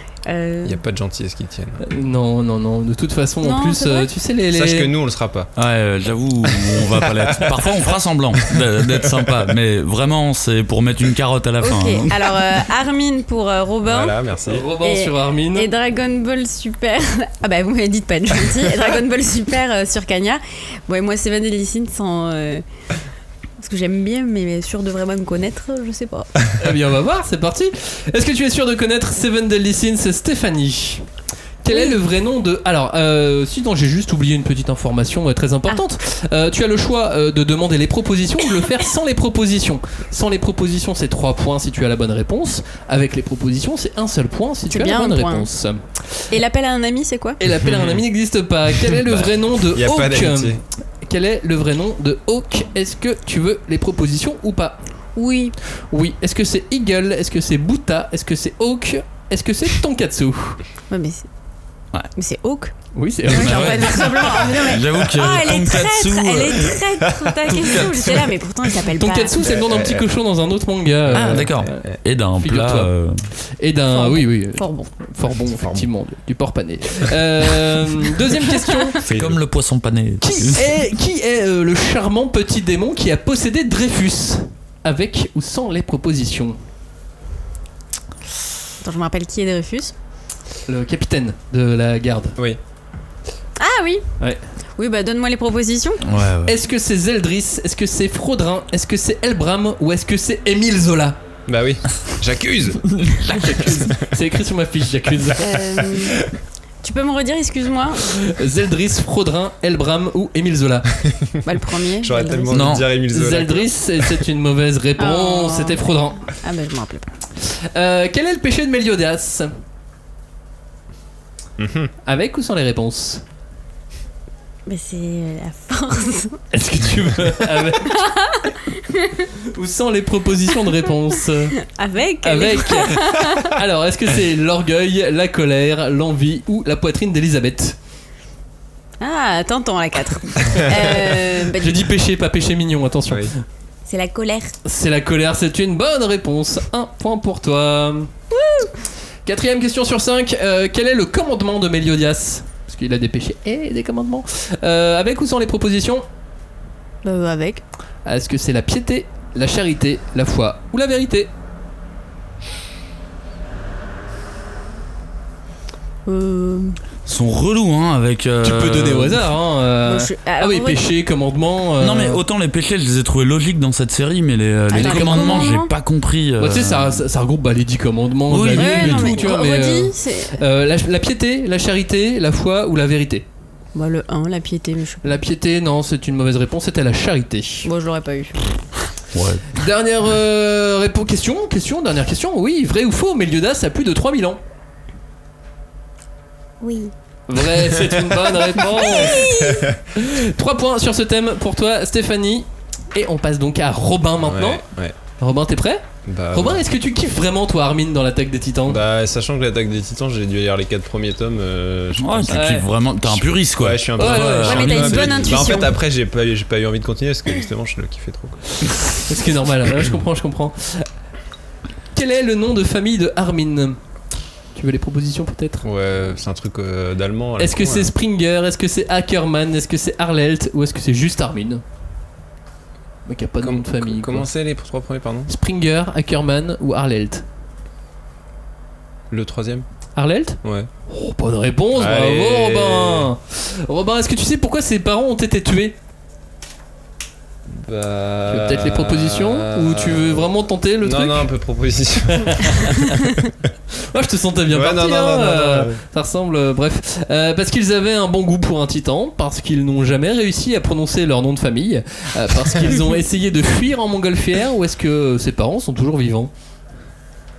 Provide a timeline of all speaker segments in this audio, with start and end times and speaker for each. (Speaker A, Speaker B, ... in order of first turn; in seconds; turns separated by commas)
Speaker A: 0.2-0.8, Speaker B: 0.6-1.8, Speaker C: 1.8-4.9, Speaker A: 3.4-4.1, Speaker B: 4.5-5.5, Speaker D: 5.6-12.4, Speaker B: 6.6-7.7, Speaker B: 8.5-9.3, Speaker A: 11.6-14.2, Speaker B: 13.8-14.7, Speaker C: 14.5-15.7, Speaker A: 14.8-22.6, Speaker A: 23.6-26.3, Speaker C: 26.6-31.1, Speaker C: 31.6-45.8, Speaker A: 31.7-32.0, Speaker A: 44.7-45.5, Speaker A: 46.3-47.4, Speaker C: 47.4-54.8, Speaker B: 47.5-48.0, Speaker B: 48.9-50.6, Speaker A: 55.1-55.6, Speaker C: 55.9-60.6, Speaker A: 60.9-61.3, Speaker A: 62.1-62.7, Speaker C: 62.9-64.3, Speaker A: 63.3-69.4, Speaker D: 63.3-66.8, Speaker B: 67.2-67.8, Speaker C: 69.0-71.8, Speaker B: 69.4-70.1, Speaker B: 71.1-72.0, Speaker D: 71.1-73.2, Speaker C: 72.4-72.9, Speaker C: 73.6-79.0, Speaker A: 73.9-74.9, Speaker B: 75.5-75.9, Speaker A: 78.6-78.9, Speaker B: 79.1-79.4, Speaker D: 79.1-80.6, Speaker C: 80.2-86.6, Speaker A: 88.8-89.9, Speaker C: 90.7-92.4, Speaker A: 93.6-94.0, Speaker A: 94.8-96.0, Speaker D: 96.0-96.5, Speaker C: 96.5-101.2, Speaker B: 101.5-102.9, Speaker C: 103.3-105.5, Speaker A: 105.4-106.2, Speaker B: 105.8-106.1, Speaker A: 106.8-108.1, Speaker C: 108.2-110.9, Speaker B: 111.0-111.4, Speaker A: 111.4-112.6, Speaker B: 112.0-114.0, Speaker D: 112.5-112.9, Speaker C: 113.1-116.2, Speaker A: 115.0-117.1, Speaker C: 117.4-119.5, Speaker B: 121.6-121.9, Speaker C: 122.0-123.2, Speaker A: 124.7-126.4, Speaker C: 126.5-128.0, Speaker A: 127.9-129.2, Speaker C: 129.5-131.6, Speaker A: 131.6-133.6, Speaker C: 132.2-137.8, Speaker A: 139.0-141.8, Speaker C: 141.6-143.4, Speaker A: 143.9-144.6, Speaker C: 144.6-148.1, Speaker A: 148.3-148.7, Speaker C: 149.2-156.1, Speaker A: 157.0-157.6, Speaker C: 158.1-161.3, Speaker A: 166.1-166.8, Speaker D: 167.1-169.2, Speaker C: 168.4-172.2, Speaker A: 169.8-170.8, Speaker D: 171.8-177.0, Speaker A: 174.7-175.7, Speaker C: 174.8-175.5, Speaker C: 176.4-183.3, Speaker D: 178.3-179.3, Speaker A: 178.5-180.4, Speaker A: 183.8-185.2, Speaker C: 185.0-187.7, Speaker A: 187.6-188.4, Speaker D: 189.1-189.6, Speaker C: 189.6-194.4, Speaker A: 196.6-196.9, Speaker C: 197.3-199.3, Speaker A: 198.5-199.7, Speaker B: 199.4-199.7, Speaker C: 199.9-204.6, Speaker B: 204.2-205.0, Speaker C: 205.2-208.8, Speaker B: 206.1-206.6, Speaker B: 208.7-212.5, Speaker D: 212.0-215.5, Speaker C: 212.3-212.7, Speaker B: 213.0-218.4, Speaker C: 214.0-214.8, Speaker A: 214.4-215.7, Speaker C: 219.1-220.9, Speaker C: 221.9-223.8, Speaker C: 224.6-225.6, Speaker B: 225.6-227.9, Speaker C: 227.4-231.6, Speaker C: 233.1-234.3, Speaker B: 233.4-235.3, Speaker C: 235.3-237.2, Speaker B: 239.1-239.6, Speaker C: 240.0-245.8, Speaker B: 240.4-240.7, Speaker B: 241.8-243.1, Speaker B: 247.5-253.0, Speaker C: 248.3-251.3, Speaker C: 252.1-252.9, Speaker C: 253.9-266.3, Speaker B: 254.5-255.8